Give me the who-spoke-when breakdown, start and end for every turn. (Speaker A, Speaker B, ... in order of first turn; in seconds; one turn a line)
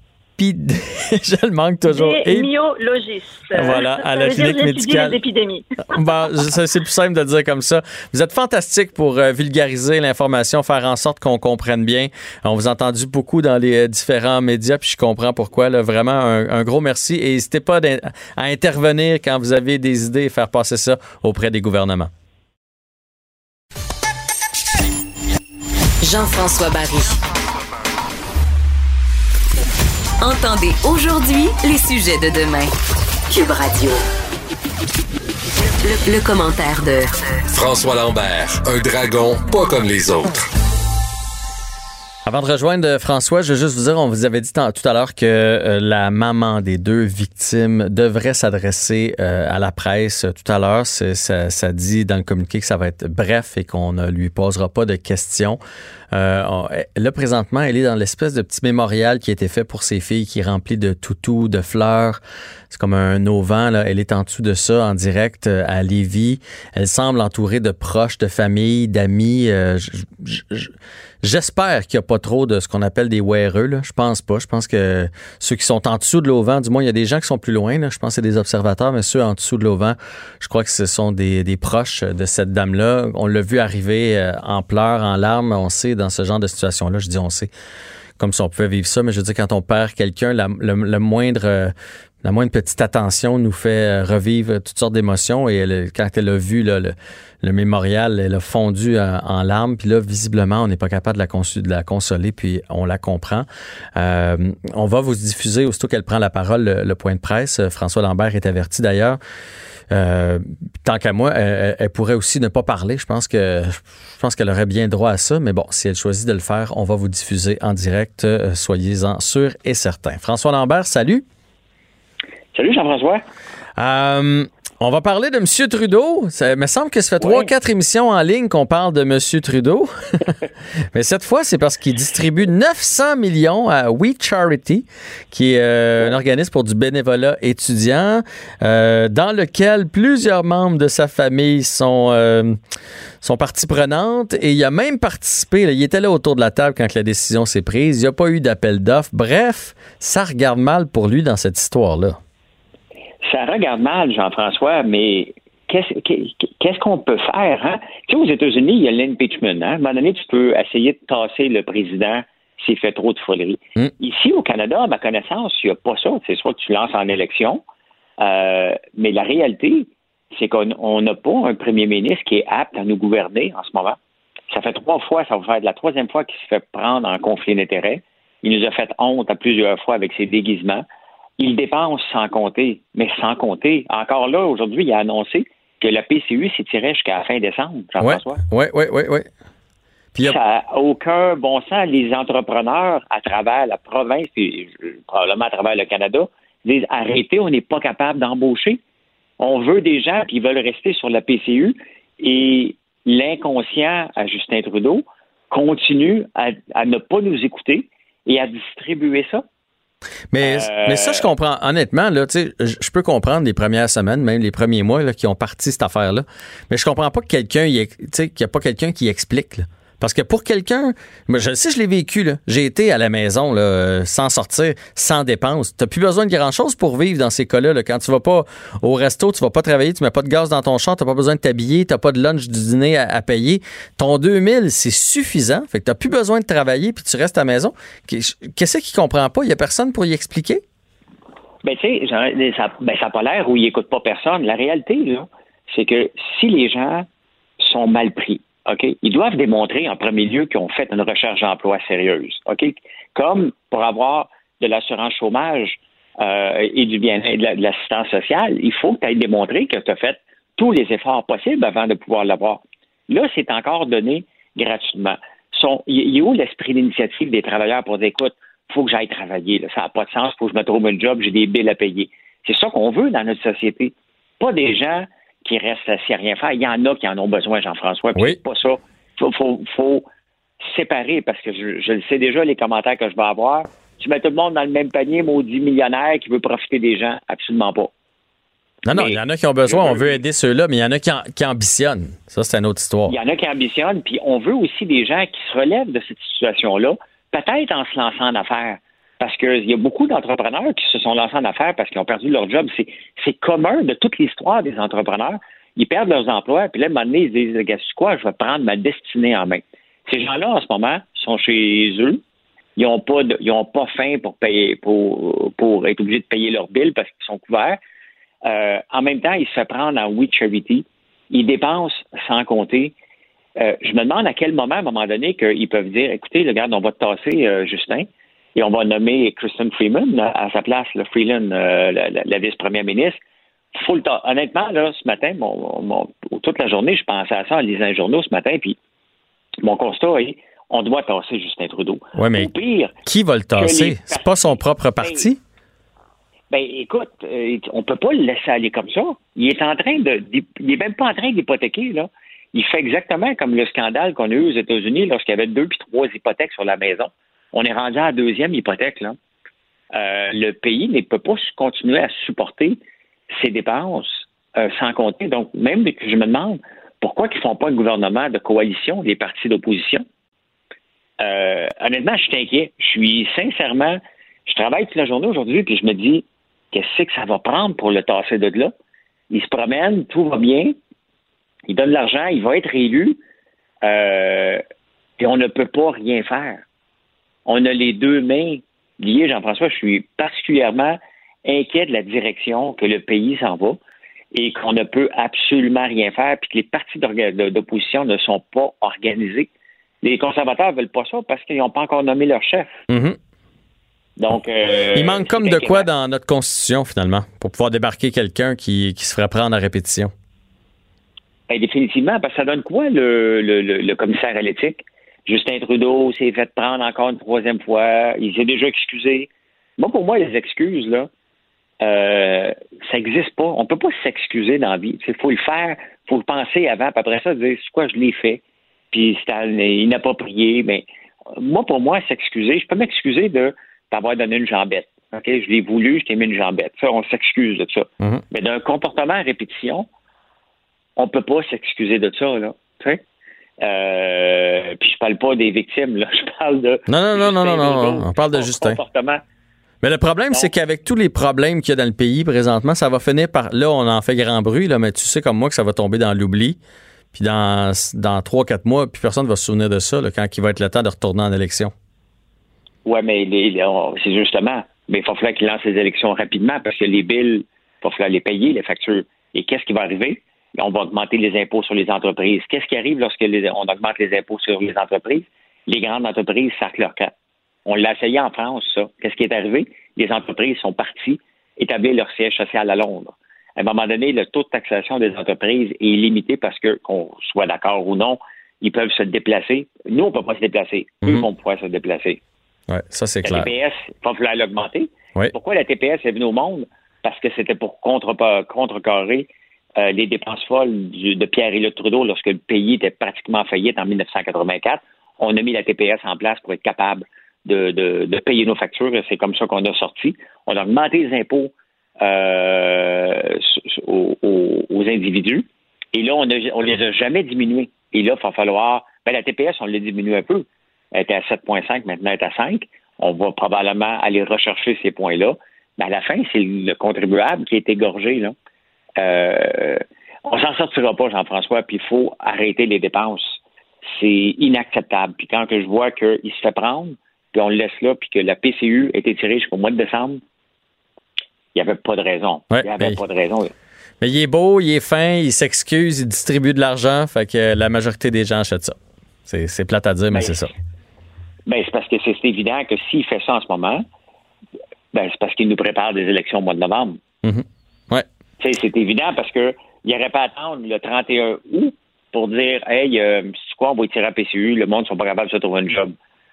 Speaker A: 0.4-2.5
Speaker B: 1.9-6.0
Speaker A: 3.5-5.2
Speaker A: 5.9-22.1
Speaker C: 26.0-27.2
Speaker C: 30.2-32.7
Speaker C: 33.3-34.0
Speaker C: 35.8-37.1
Speaker D: 37.5-40.5
Speaker A: 42.2-55.6
Speaker A: 56.1-62.2
Speaker A: 62.7-87.5
Speaker A: 88.2-109.2
Speaker A: 109.9-121.2
Speaker E: 122.5-123.2
Speaker A: 123.8-130.3
Speaker E: 127.2-127.5
Speaker A: 130.9-142.6
Speaker A: 143.2-152.2
Speaker E: 153.2-167.6
Speaker E: 168.2-174.0
Speaker E: 174.5-180.8
Speaker E: 181.4-188.4
Speaker A: 188.0-189.3
Speaker E: 190.2-198.8
Speaker E: 199.4-209.4
Speaker A: 210.3-240.6
Speaker E: 210.4-211.3
Speaker E: 241.6-247.1
Speaker E: 247.6-280.1
Speaker E: 280.6-287.9
Speaker A: 288.8-293.1
Speaker E: 288.9-290.2
Speaker E: 293.1-312.2
Speaker E: 312.8-317.8
Speaker E: 318.4-322.9
Speaker E: 323.6-333.2
Speaker E: 333.7-338.8
Speaker E: 339.6-343.0
Speaker A: 342.1-342.5
Speaker A: 343.0-345.4
Speaker E: 343.5-345.3
Speaker E: 346.5-359.2
Speaker E: 359.9-362.8
Speaker E: 363.3-370.0
Speaker E: 371.2-378.7
Speaker E: 379.3-380.8
Speaker E: 381.7-383.2
Speaker E: 383.8-384.6
Speaker E: 385.2-386.6
Speaker E: 387.4-393.8
Speaker E: 394.3-399.5
Speaker E: 400.0-402.8
Speaker A: 402.9-403.2
Speaker E: 404.2-405.9
Speaker A: 404.9-410.1
Speaker E: 411.5-421.1
Speaker E: 421.8-439.9
Speaker E: 441.0-443.0
Speaker E: 443.6-449.2
Speaker A: 446.9-448.8
Speaker A: 449.8-456.6
Speaker A: 457.1-461.7
Speaker E: 462.8-477.1
Speaker E: 477.6-492.2
Speaker A: 492.7-493.5
Speaker E: 493.2-528.3
Speaker E: 529.0-540.2
Speaker E: 541.5-543.5
Speaker A: 542.5-543.0
Speaker A: 544.0-550.5
Speaker E: 550.1-550.4
Speaker E: 551.5-553.8
Speaker E: 554.9-557.0
Speaker A: 557.2-558.0
Speaker E: 558.4-565.9